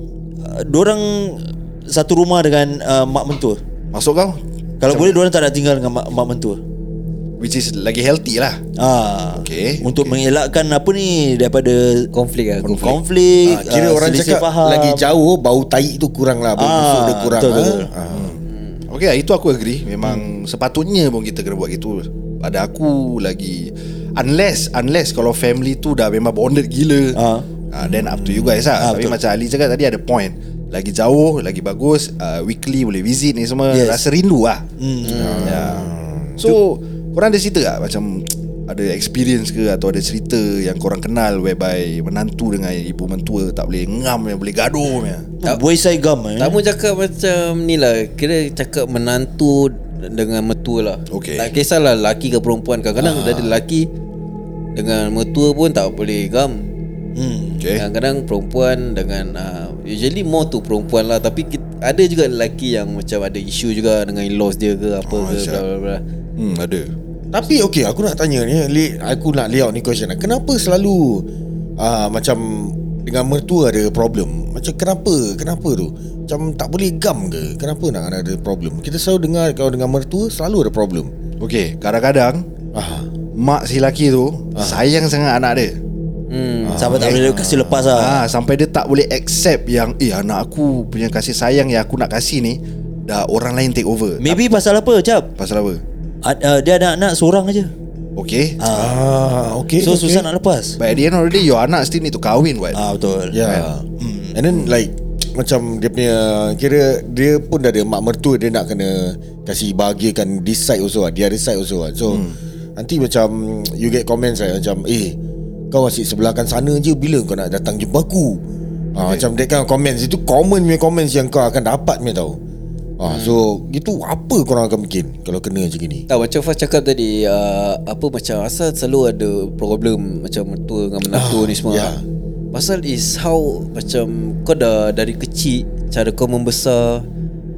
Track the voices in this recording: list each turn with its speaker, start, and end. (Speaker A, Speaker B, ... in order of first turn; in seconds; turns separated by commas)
Speaker A: 0.4-3.6, Speaker B: 3.9-5.2, Speaker A: 4.8-6.6, Speaker B: 7.4-8.6, Speaker A: 8.8-12.1, Speaker B: 9.3-10.2, Speaker C: 12.1-12.9, Speaker B: 12.6-13.0, Speaker A: 12.7-15.1, Speaker D: 13.4-18.4, Speaker A: 16.6-17.9, Speaker B: 18.1-27.2, Speaker C: 18.5-18.8, Speaker A: 27.1-27.5, Speaker B: 27.7-34.6, Speaker D: 27.8-28.7, Speaker A: 28.8-29.2, Speaker A: 33.7-34.0, Speaker A: 34.8-35.5, Speaker C: 35.0-35.6, Speaker D: 35.1-36.6, Speaker B: 35.4-45.3, Speaker A: 45.4-46.6, Speaker C: 46.4-53.9, Speaker B: 51.1-51.5, Speaker C: 54.8-56.7, Speaker A: 57.1-57.7, Speaker B: 57.6-57.9, Speaker C: 57.8-66.0, Speaker B: 65.0-65.6, Speaker B: 66.4-66.9, Speaker D: 67.3-71.3, Speaker D: 71.8-81.1, Speaker B: 81.4-82.5, Speaker D: 82.7-83.1, Speaker B: 83.3-85.8, Speaker D: 84.6-84.8, Speaker C: 86.3-87.0, Speaker D: 86.6-87.9, Speaker A: 86.8-88.2, Speaker B: 88.0-94.4, Speaker A: 94.2-95.3, Speaker B: 95.4-95.8, Speaker A: 96.2-97.7, Speaker B: 98.2-98.6, Speaker A: 98.6-99.0, Speaker D: 98.7-100.3, Speaker A: 99.8-100.8, Speaker B: 100.8-102.8, Speaker A: 102.7-103.4, Speaker D: 103.3-115.2, Speaker A: 104.0-104.4, Speaker B: 104.5-104.8, Speaker B: 112.1-112.4, Speaker D: 115.7-118.4, Speaker D: 119.0-122.4, Speaker B: 119.0-119.3, Speaker D: 123.0-126.1, Speaker C: 123.0-123.4, Speaker C: 126.1-131.9, Speaker D: 131.1-132.0, Speaker C: 132.5-137.1